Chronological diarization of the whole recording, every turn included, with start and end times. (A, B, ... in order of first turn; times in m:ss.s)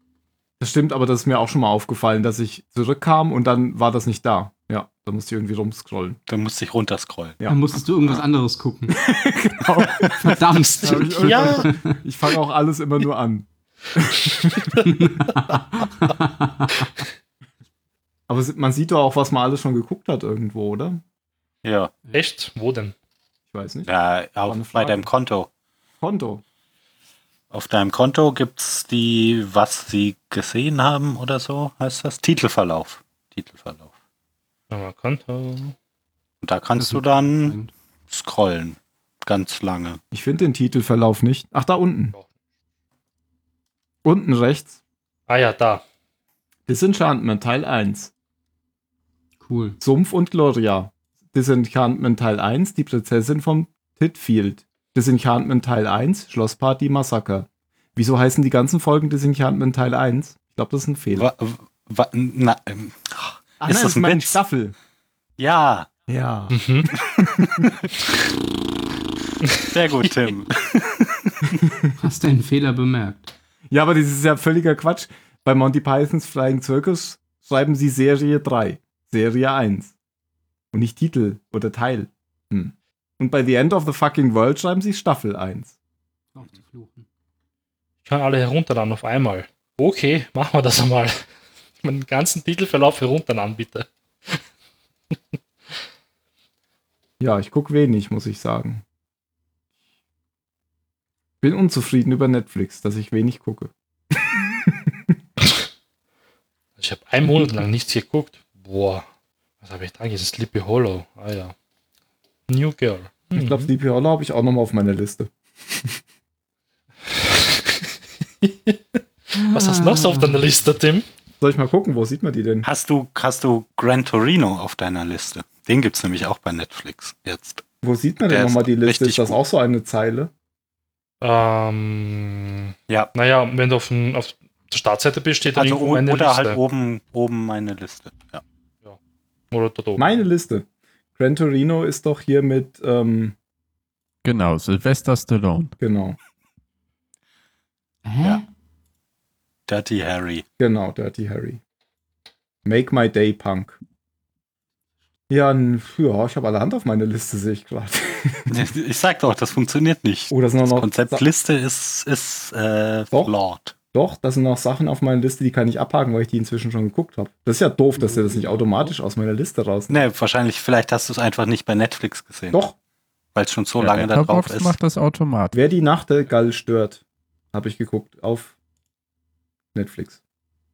0:00.6-0:06.2 A
0:06.3-0:07.4 B
0:07.4-0:09.0 C
0:08.9-0:14.8 A
0:09.9-0:11.1 B
0:10.2-0:12.0 C
0:10.9-0:11.7 D
0:14.9-0:16.9 C
0:18.3-0:21.0 A
0:21.6-0:21.9 B
0:22.1-0:22.9 D
0:23.5-0:23.9 A
0:23.8-0:25.5 B
0:24.4-0:25.1 A
0:26.0-0:26.4 A
0:27.5-0:33.9 B
0:34.7-0:35.7 D
0:36.4-0:37.6 B
0:36.8-0:37.7 C
0:38.1-0:40.0 B
0:40.1-0:42.1 A
0:44.0-0:44.8 A
0:45.3-0:45.8 D
0:46.7-0:48.1 A
0:49.4-0:49.8 C
0:49.8-1:01.3 A
1:01.1-1:04.4 B
1:03.6-1:04.7 A
1:05.4-1:05.9 B
1:06.1-1:07.7 A
1:06.5-1:06.9 D
1:07.6-1:07.9 B
1:09.6-1:11.6 B
1:12.0-1:13.3 C
1:13.7-1:19.9 A
1:20.7-1:25.7 A
1:26.3-1:27.0 C
1:28.0-1:31.2 D
1:31.8-1:34.4 D
1:37.2-1:38.8 A
1:41.4-1:45.1 A
1:46.8-1:49.0 D
1:49.6-1:51.5 D
1:52.5-1:53.7 D
1:53.3-1:56.0 A
1:57.2-1:57.9 D
1:58.4-2:01.0 D
1:59.4-2:00.4 C
2:01.4-2:02.7 A
2:02.6-2:07.6 B
2:07.8-2:10.3 A
2:08.3-2:09.4 B
2:11.2-2:16.6 D
2:15.5-2:18.4 B
2:19.5-2:20.1 D
2:20.0-2:23.3 A
2:24.2-2:25.7 E
2:25.8-2:26.2 A
2:28.0-2:28.4 C
2:29.7-2:30.4 B
2:30.6-2:31.6 A
2:32.6-2:33.8 A
2:35.3-2:38.6 A
2:38.5-2:43.7 B
2:40.3-2:41.2 A
2:43.9-2:50.0 A
2:48.0-2:49.0 C
2:49.9-2:52.6 B
2:53.3-2:54.8 B
2:53.8-2:55.6 E
2:55.5-2:57.0 A
2:57.5-2:58.5 A
2:59.7-3:00.2 A